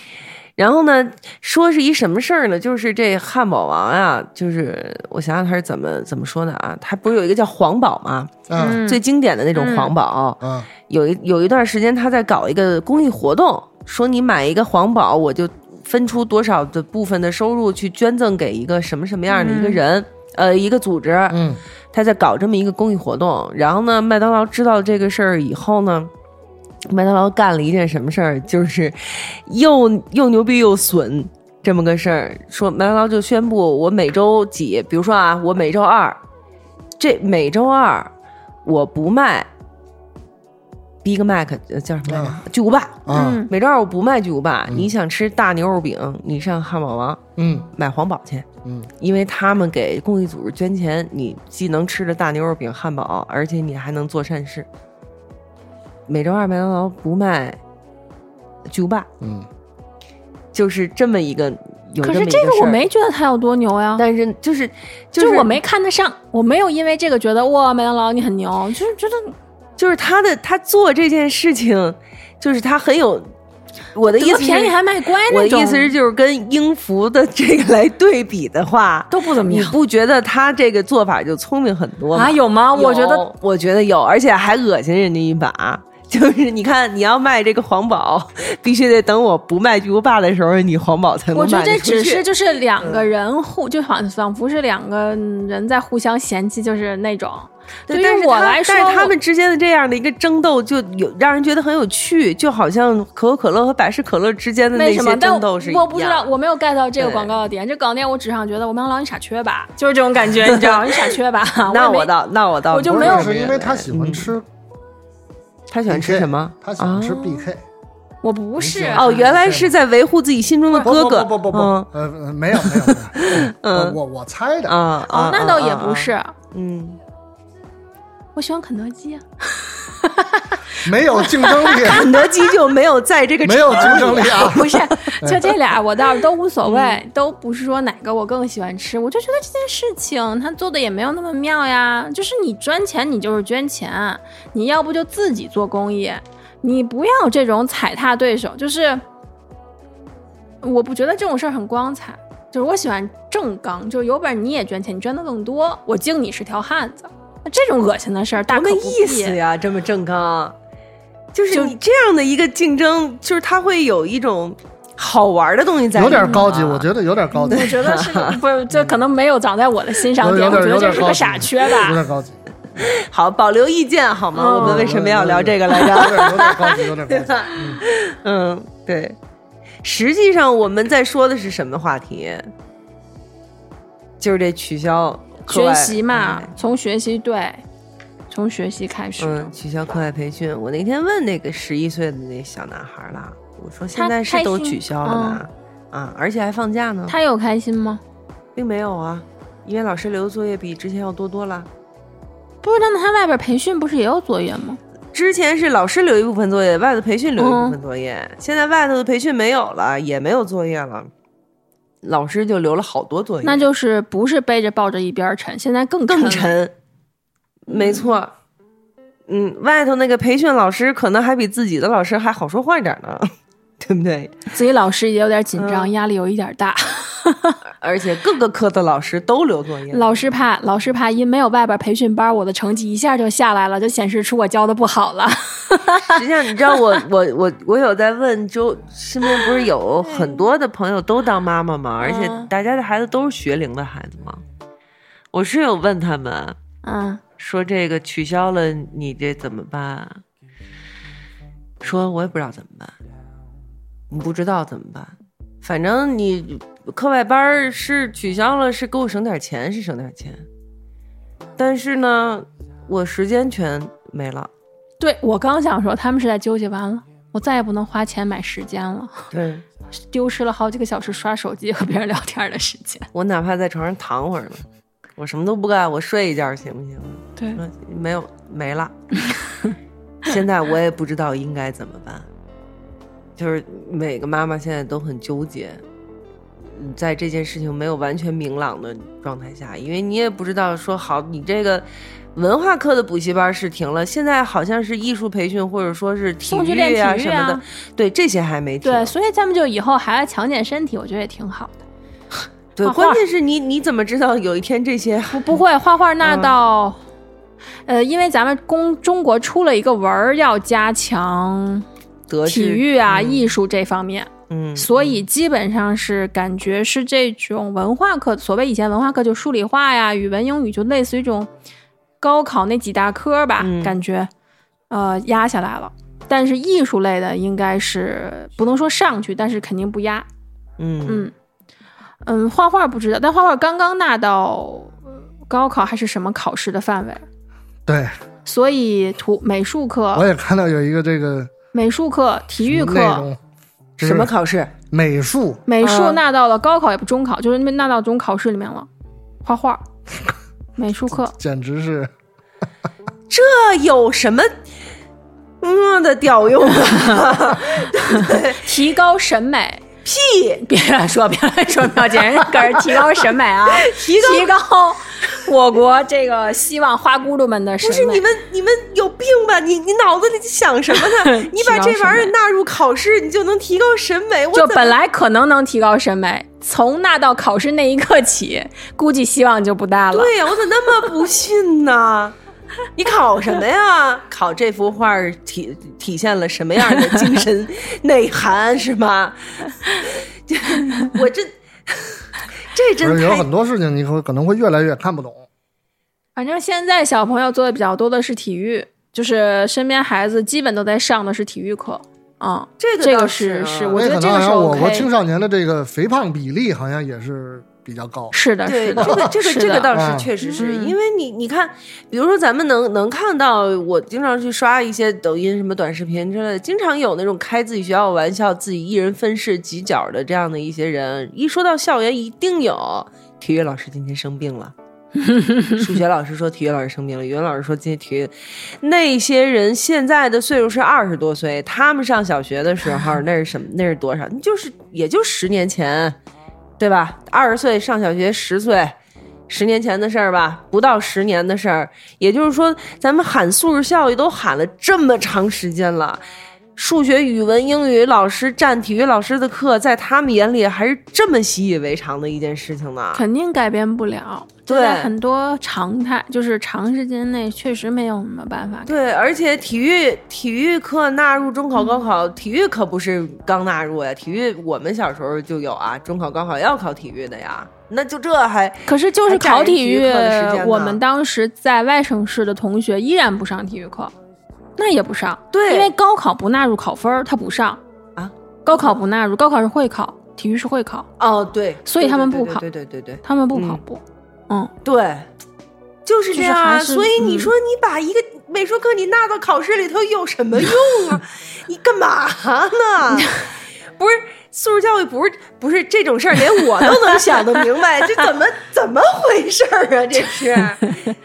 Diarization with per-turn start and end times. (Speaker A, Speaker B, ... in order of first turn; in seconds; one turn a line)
Speaker A: 0.6-26.1
Speaker B: 8.5-8.8
Speaker C: 8.6-9.0
Speaker C: 9.5-9.9
Speaker B: 10.4-10.7
Speaker C: 19.3-19.8
Speaker B: 21.3-21.6
Speaker A: 26.9-36.2
Speaker A: 37.0-38.1
Speaker A: 38.6-39.5
Speaker A: 41.0-47.2
Speaker B: 42.1-42.4
Speaker B: 43.0-43.4
Speaker C: 43.1-43.5
Speaker B: 47.4-47.7
Speaker A: 47.7-48.5
Speaker B: 48.6-48.9
Speaker A: 49.0-54.7
Speaker A: 56.1-57.6
Speaker A: 58.7-59.1
Speaker B: 59.2-59.5
Speaker A: 60.5-62.8
Speaker C: 62.0-64.0
Speaker A: 64.0-65.6
Speaker C: 65.2-69.3
Speaker A: 69.8-73.3
Speaker A: 73.9-92.2
Speaker C: 74.0-75.9
Speaker C: 79.1-79.8
Speaker C: 82.1-83.2
Speaker C: 91.3-99.1
Speaker A: 92.8-93.1
Speaker A: 97.9-106.3
Speaker C: 104.7-112.1
Speaker A: 107.0-107.3
Speaker A: 110.4-111.0
Speaker A: 111.7-114.3
Speaker C: 112.7-113.5
Speaker B: 112.9-114.5
Speaker A: 115.7-117.5
Speaker B: 115.9-117.6
Speaker C: 118.2-119.2
Speaker B: 118.6-119.7
Speaker A: 118.9-121.9
Speaker B: 120.8-124.8
Speaker A: 122.5-124.0
Speaker A: 124.7-127.0
Speaker C: 125.1-126.3
Speaker C: 128.3-132.5
Speaker B: 130.8-132.1
Speaker A: 131.8-135.4
Speaker B: 133.4-135.5
Speaker C: 133.9-149.0
Speaker A: 136.6-137.0
Speaker C: 150.6-159.4
Speaker A: 158.4-160.5
Speaker A: 161.3-166.9
Speaker C: 161.5-161.8
Speaker B: 165.9-167.8
Speaker C: 166.2-166.5
Speaker C: 167.3-172.0
Speaker A: 167.5-168.4
Speaker B: 170.2-172.4
Speaker A: 172.8-179.2
Speaker C: 174.3-175.0
Speaker B: 174.6-177.8
Speaker C: 175.7-176.2
Speaker A: 179.8-182.5
Speaker A: 184.2-186.5
Speaker C: 185.5-187.6
Speaker C: 188.3-189.5
Speaker A: 189.2-197.2
Speaker C: 193.9-195.4
Speaker C: 197.1-198.0
Speaker A: 198.6-201.7
Speaker C: 202.6-204.8
Speaker A: 205.1-211.1
Speaker C: 207.4-207.8
Speaker A: 212.0-213.7
Speaker C: 213.4-216.5
Speaker A: 216.1-216.7
Speaker A: 217.7-218.3
Speaker C: 217.7-218.0
Speaker A: 219.3-224.3
Speaker C: 224.5-227.6
Speaker A: 225.6-225.9
Speaker A: 227.8-230.1
Speaker C: 229.9-236.9
Speaker A: 236.0-244.4
Speaker C: 239.3-240.4
Speaker C: 242.0-242.5
Speaker A: 245.3-246.6
Speaker C: 246.8-247.2
Speaker A: 247.4-250.2
Speaker A: 251.8-252.9
Speaker A: 254.1-260.4
Speaker A: 261.6-264.5
Speaker C: 265.0-269.3
Speaker A: 269.3-269.6
Speaker C: 270.1-273.1
Speaker A: 273.1-274.6
Speaker A: 275.2-278.9
Speaker C: 279.3-279.7
Speaker A: 280.2-282.3
Speaker A: 283.4-285.8
Speaker A: 286.6-299.1
Speaker C: 296.5-297.6
Speaker C: 298.8-301.8
Speaker A: 302.8-305.6
Speaker C: 302.8-303.2
Speaker C: 305.3-307.0
Speaker A: 306.2-306.5
Speaker C: 307.9-311.8
Speaker A: 312.3-313.6
Speaker C: 312.4-321.5
Speaker A: 314.5-315.2
Speaker C: 322.2-324.3
Speaker A: 323.6-323.9
Speaker C: 324.9-330.3
Speaker A: 330.8-331.3
Speaker C: 331.1-331.3
Speaker C: 332.2-337.2
Speaker B: 337.9-338.1
Speaker C: 338.4-340.3
Speaker B: 340.1-341.5
Speaker C: 341.7-343.3
Speaker B: 342.6-343.4
Speaker B: 344.0-344.3
Speaker A: 344.0-344.7
Speaker B: 344.9-345.6
Speaker C: 345.7-348.9
Speaker A: 345.8-346.2
Speaker C: 349.4-349.8
Speaker C: 350.8-351.4
Speaker B: 351.3-352.1
Speaker A: 353.3-354.5
Speaker A: 355.6-358.6
Speaker C: 357.9-359.9
Speaker A: 360.0-360.6
Speaker C: 360.6-368.2
Speaker A: 363.7-364.5
Speaker A: 367.8-374.9
Speaker C: 370.9-372.3
Speaker C: 374.5-380.3
Speaker A: 380.1-382.4
Speaker A: 382.9-393.4
Speaker B: 393.0-395.4
Speaker C: 396.4-405.1
Speaker A: 402.8-404.0
Speaker B: 403.9-408.3
Speaker C: 408.3-410.9
Speaker A: 408.6-424.7
Speaker B: 409.0-409.3
Speaker B: 409.9-410.3
Speaker C: 425.2-425.7
Speaker A: 425.7-436.1
Speaker A: 436.8-438.9
Speaker A: 439.5-446.2
Speaker A: 446.8-453.2
Speaker C: 453.1-458.9
Speaker A: 454.7-455.1
Speaker A: 458.9-471.0
Speaker C: 468.9-474.1
Speaker C: 474.8-477.8
Speaker A: 475.5-475.9
Speaker A: 478.1-478.9
Speaker C: 478.6-481.1
Speaker A: 481.2-483.8
Speaker C: 481.9-482.6
Speaker C: 483.2-484.7
Speaker A: 484.8-485.3
Speaker A: 486.1-493.4
Speaker C: 486.3-487.5
Speaker C: 493.2-493.4
Speaker A: 493.9-501.1